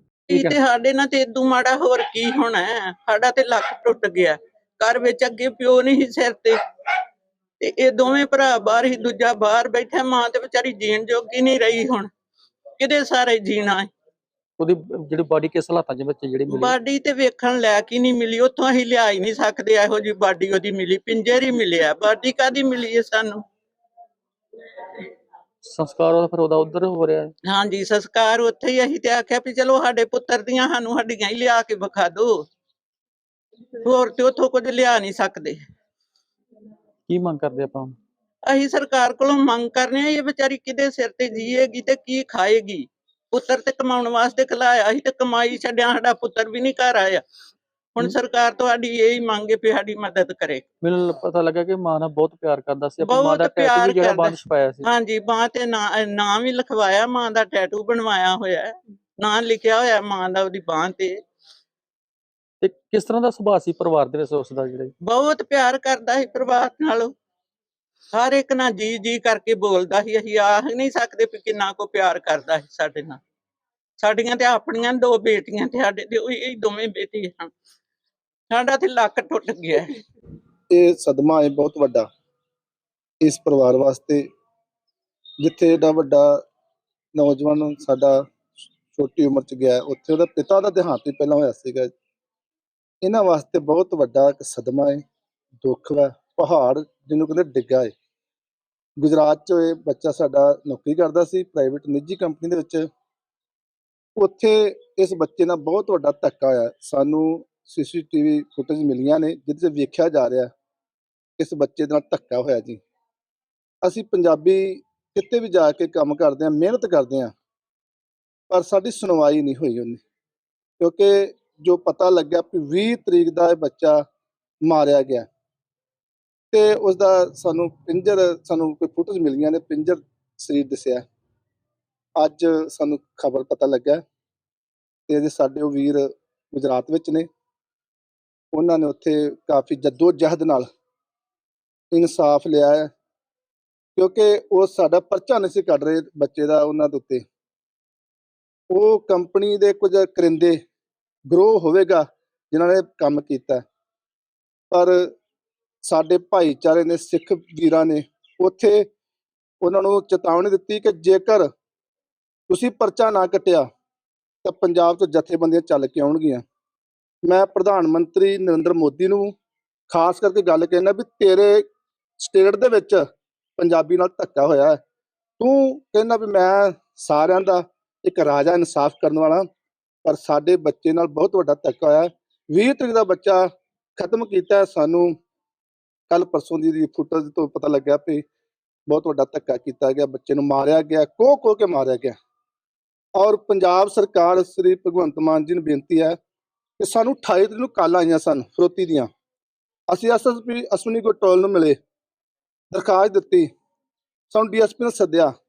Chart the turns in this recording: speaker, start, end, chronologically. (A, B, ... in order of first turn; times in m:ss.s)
0:00.3-0:06.6 A
0:07.6-0:12.1 A
0:12.8-0:13.9 A
0:14.6-0:16.7 B
0:16.5-0:23.4 A
0:25.6-0:27.3 B
0:27.5-0:32.4 A
0:33.8-0:35.6 A
0:37.1-0:38.0 B
0:38.4-0:47.2 A
0:47.9-0:50.7 A
0:50.8-0:54.9 B
0:53.0-1:01.2 A
1:02.6-1:04.9 B
1:05.0-1:07.1 A
1:08.1-1:13.2 A
1:14.0-1:17.5 A
1:18.5-1:19.9 A
1:20.7-1:22.1 C
1:23.2-1:24.2 C
1:25.4-1:26.4 C
1:27.1-1:28.2 C
1:28.9-1:31.9 C
1:33.0-1:35.0 C
1:35.6-1:37.9 C
1:39.0-1:42.8 C
1:44.2-1:50.5 C
1:51.4-1:52.8 C
1:53.8-1:57.3 C
1:58.5-2:00.0 C
2:00.8-2:04.0 C
2:04.6-2:05.2 C
2:06.5-2:11.0 C
2:12.2-2:14.0 C
2:15.1-2:17.2 C
2:18.5-2:20.6 C
2:21.9-2:22.9 C
2:24.0-2:27.2 C
2:28.7-2:30.6 C
2:31.3-2:33.6 C
2:34.7-2:35.1 C
2:35.8-2:38.9 C
2:39.6-2:41.5 C
2:42.5-2:43.6 C
2:44.4-2:46.4 C
2:47.2-2:49.3 C
2:49.9-2:51.6 C
2:52.2-2:53.0 C
2:53.6-2:54.8 C
2:55.4-2:59.4 C
3:00.0-3:05.1 C
3:06.1-3:08.2 C
3:08.9-3:12.1 C
3:13.2-3:16.2 C
3:16.8-3:19.1 C
3:19.9-3:21.8 C
3:22.7-3:23.5 C
3:24.3-3:25.3 C